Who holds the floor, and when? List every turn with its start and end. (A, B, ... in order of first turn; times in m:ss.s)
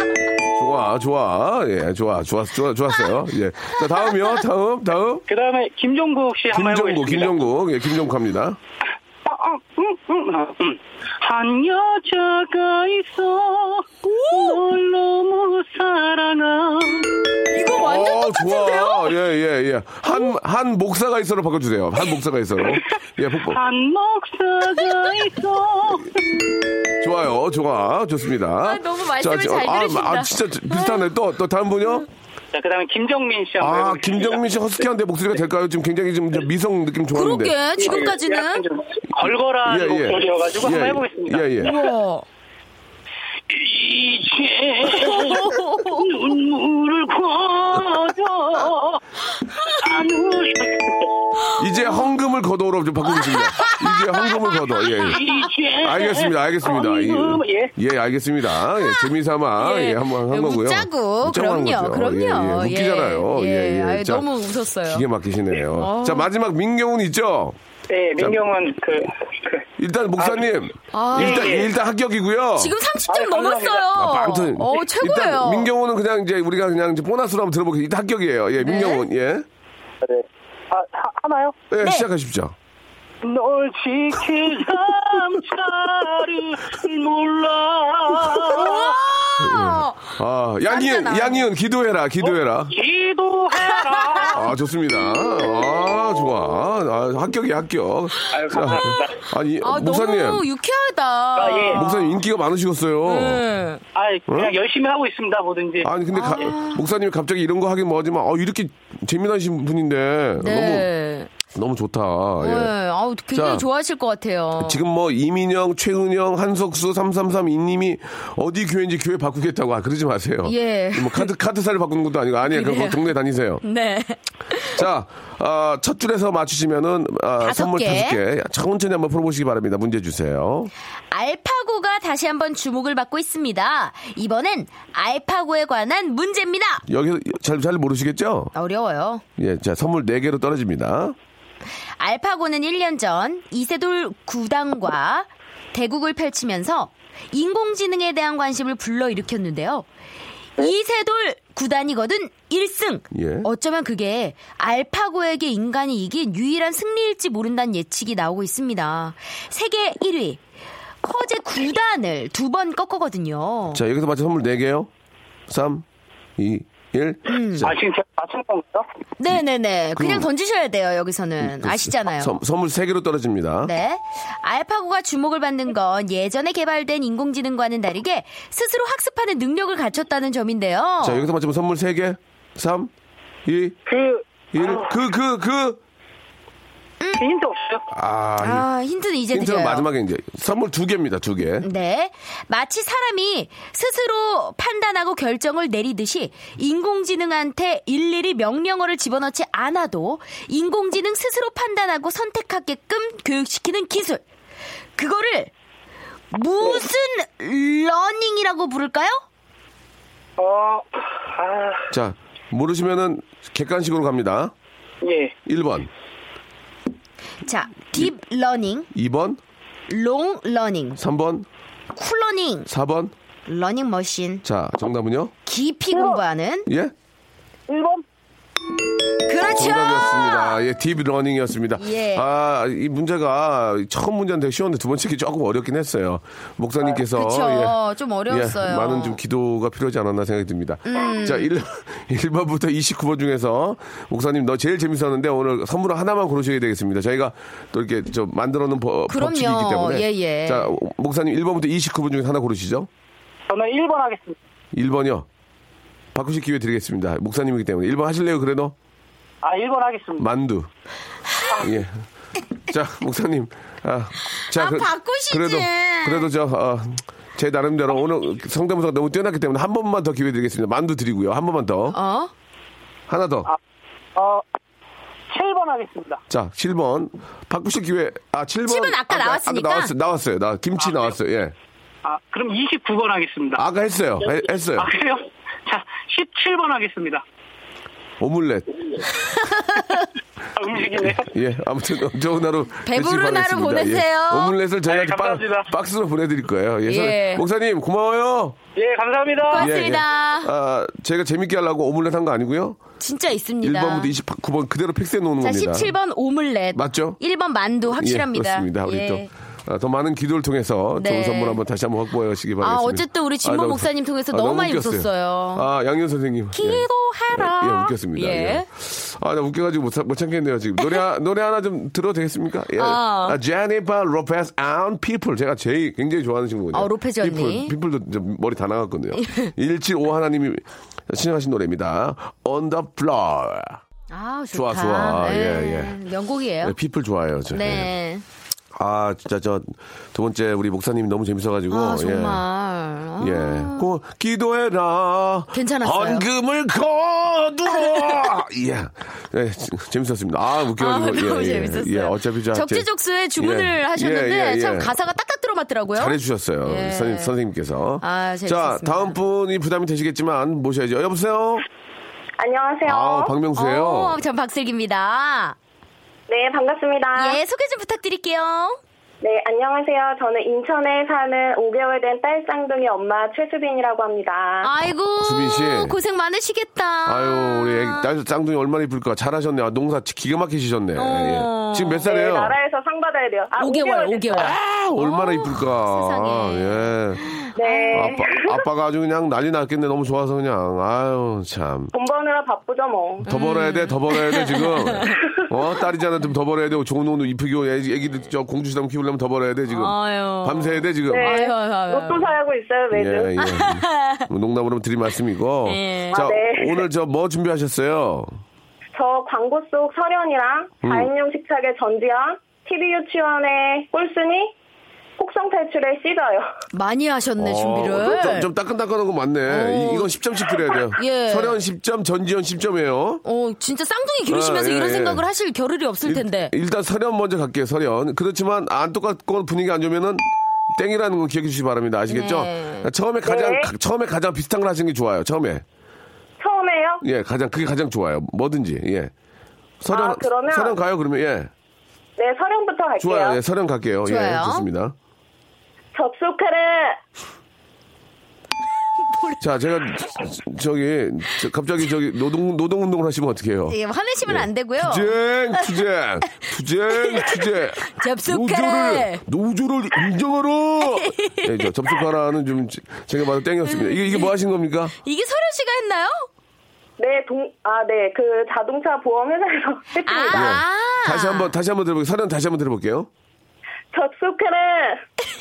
0:00.5-0:05.2 A
0:05.3-0:07.5 B
0:06.5-0:08.6 A
0:09.2-0:17.1 B
0:14.0-0:14.6 C
0:17.5-0:19.1 C
0:17.8-0:23.6 A
0:20.1-0:20.3 C
0:23.5-0:26.2 B
0:27.0-0:32.1 A
0:28.6-0:31.0 C
0:32.5-0:34.4 B
0:33.6-0:37.6 A
0:37.1-0:38.6 C
0:37.8-0:41.7 B
0:39.6-0:41.8 A
0:41.6-0:42.2 C
0:43.5-0:49.0 B
0:45.0-0:46.1 C
0:49.8-0:51.1 B
0:51.6-0:55.2 A
0:53.2-0:55.2 C
0:55.1-0:57.7 B
0:55.8-1:07.6 A
0:58.7-1:05.0 C
1:05.8-1:06.3 C
1:07.9-1:09.6 B
1:08.2-1:08.4 A
1:09.8-1:12.8 A
1:10.2-1:10.5 B
1:10.9-1:11.7 C
1:11.2-1:11.7 B
1:12.6-1:15.7 C
1:13.1-1:13.9 B
1:13.9-1:19.4 A
1:18.6-1:19.0 C
1:20.0-1:21.6 B
1:21.7-1:22.5 A
1:21.8-1:22.1 C
1:23.2-1:29.0 B
1:28.4-1:30.1 C
1:29.4-1:32.8 A
1:30.7-1:31.4 C
1:32.2-1:34.4 B
1:33.5-1:34.4 C
1:34.3-1:40.4 A
1:38.3-1:39.3 B
1:39.6-1:42.0 C
1:41.4-1:41.9 B
1:41.7-1:43.4 A
1:43.0-1:43.8 C
1:43.9-1:45.9 B
1:44.3-1:44.5 A
1:45.8-1:50.9 A
1:46.1-1:46.8 C
1:50.4-1:51.3 C
1:51.5-1:52.7 A
1:52.4-1:54.8 C
1:53.3-1:53.6 A
1:54.6-2:03.6 A
2:00.4-2:01.3 C
2:02.5-2:03.0 C
2:03.6-2:04.8 C
2:04.8-2:10.7 A
2:07.4-2:08.2 C
2:11.1-2:16.8 C
2:16.9-2:18.5 A
2:18.5-2:19.2 C
2:19.4-2:21.2 A
2:22.0-2:29.8 C
2:30.6-2:40.4 C
2:33.1-2:33.5 A
2:41.0-2:43.8 C
2:43.7-2:44.9 A
2:45.5-2:45.8 A
2:46.4-2:47.8 A
2:47.3-2:47.7 C
2:47.6-2:48.8 B
2:49.2-2:52.3 C
2:49.9-2:50.3 A
2:51.4-2:53.7 A
2:53.6-3:01.2 C
3:01.0-3:02.9 A
3:03.4-3:03.8 A
3:03.8-3:05.0 B
3:04.5-3:05.8 A
3:07.0-3:07.3 C
3:07.2-3:07.8 B
3:07.9-3:08.7 A
3:08.4-3:09.8 C
3:09.3-3:11.7 A
3:11.6-3:24.2 C
3:25.0-3:25.5 C
3:26.3-3:29.2 C
3:30.4-3:31.9 B
3:31.9-3:34.5 A
3:35.0-3:35.3 B
3:35.4-3:35.9 A
3:37.4-3:38.9 C
3:38.9-3:39.4 A
3:39.9-3:41.0 C
3:41.0-3:41.4 A
3:41.9-3:42.7 C
3:42.7-3:43.1 A
3:43.5-3:44.4 C
3:44.4-3:45.3 A
3:45.4-3:46.7 C
3:46.7-3:46.9 A
3:47.7-3:48.0 B
3:49.3-3:50.6 C
3:49.5-3:57.8 A
3:51.8-3:52.2 C
3:57.0-3:59.2 C
3:58.3-4:12.9 A
4:00.9-4:01.5 C
4:09.1-4:10.7 C
4:13.5-4:14.4 B
4:14.7-4:15.2 A
4:16.1-4:18.7 A
4:19.4-4:20.3 B
4:20.2-4:20.7 A
4:21.6-4:22.0 A
4:22.7-4:32.0 A
4:24.5-4:26.3 C
4:31.9-4:32.3 C
4:33.1-4:33.5 A
4:34.1-4:34.4 B
4:35.3-4:36.2 B
4:36.3-4:41.5 A
4:38.6-4:39.9 C
4:40.8-4:41.1 B
4:42.0-4:43.6 B
4:43.6-4:44.9 A
4:44.2-4:47.2 B
4:48.2-4:49.0 A
4:49.3-4:50.1 C
4:50.6-4:51.3 B
4:51.2-4:58.6 A
4:52.8-4:54.5 C
4:54.9-4:55.7 B
4:56.8-4:57.4 C
4:58.8-4:59.7 B
4:59.5-5:00.5 C
4:59.5-5:02.8 A
5:03.0-5:04.1 C
5:03.6-5:06.0 A
5:05.4-5:09.3 C
5:06.7-5:07.2 A
5:07.9-5:33.8 A
5:11.0-5:11.6 C
5:12.6-5:15.6 C
5:16.5-5:18.6 C
5:22.8-5:23.4 C
5:26.7-5:27.7 C
5:34.1-5:36.7 C
5:34.5-5:36.0 A
5:36.6-5:37.9 A
5:37.5-5:38.2 C
5:38.7-5:42.4 A
5:41.7-5:43.8 C
5:43.2-5:54.9 A
5:45.5-5:46.2 C
5:50.8-5:57.3 C
5:55.9-6:01.6 A
5:58.0-5:59.1 C
6:02.4-6:03.4 D
6:02.8-6:04.2 A
6:03.5-6:05.6 C
6:06.3-6:07.4 D
6:07.2-6:08.8 C
6:09.2-6:14.7 D
6:14.6-6:18.1 C
6:15.2-6:16.0 A
6:17.0-6:22.6 A
6:21.0-6:22.1 C
6:22.0-6:24.5 D
6:23.6-6:28.2 C
6:24.3-6:27.2 A
6:27.5-6:28.6 D
6:27.9-6:31.9 A
6:31.9-6:33.3 D
6:33.2-6:41.4 A
6:33.2-6:35.1 C
6:39.7-6:42.3 C
6:41.1-6:43.3 D
6:42.9-6:48.4 A
6:43.4-6:44.2 C
6:45.6-6:46.3 C
6:46.1-6:46.8 D
6:48.9-6:54.5 D
6:50.8-6:51.1 A
6:55.2-6:56.5 D
6:56.7-6:58.5 C
6:57.4-7:03.2 A
6:59.4-7:00.1 C
7:00.6-7:01.6 C
7:03.2-7:06.5 C
7:04.3-7:05.2 A
7:06.0-7:15.6 A
7:12.1-7:12.9 C
7:13.2-7:13.7 D
7:16.4-7:17.0 D
7:17.0-7:19.1 A
7:19.8-7:21.5 A
7:19.9-7:20.8 D
7:22.2-7:23.4 D
7:23.0-7:24.9 A
7:24.0-7:24.6 C
7:25.9-7:27.0 D
7:29.1-7:29.4 C
7:29.4-7:44.9 A
7:33.7-7:35.1 C
7:36.9-7:39.2 C
7:41.0-7:41.5 C
7:43.7-7:44.3 C
7:45.0-7:46.3 C
7:47.0-7:50.6 D
7:50.0-7:51.5 C
7:50.3-7:53.1 A
7:53.9-7:55.0 D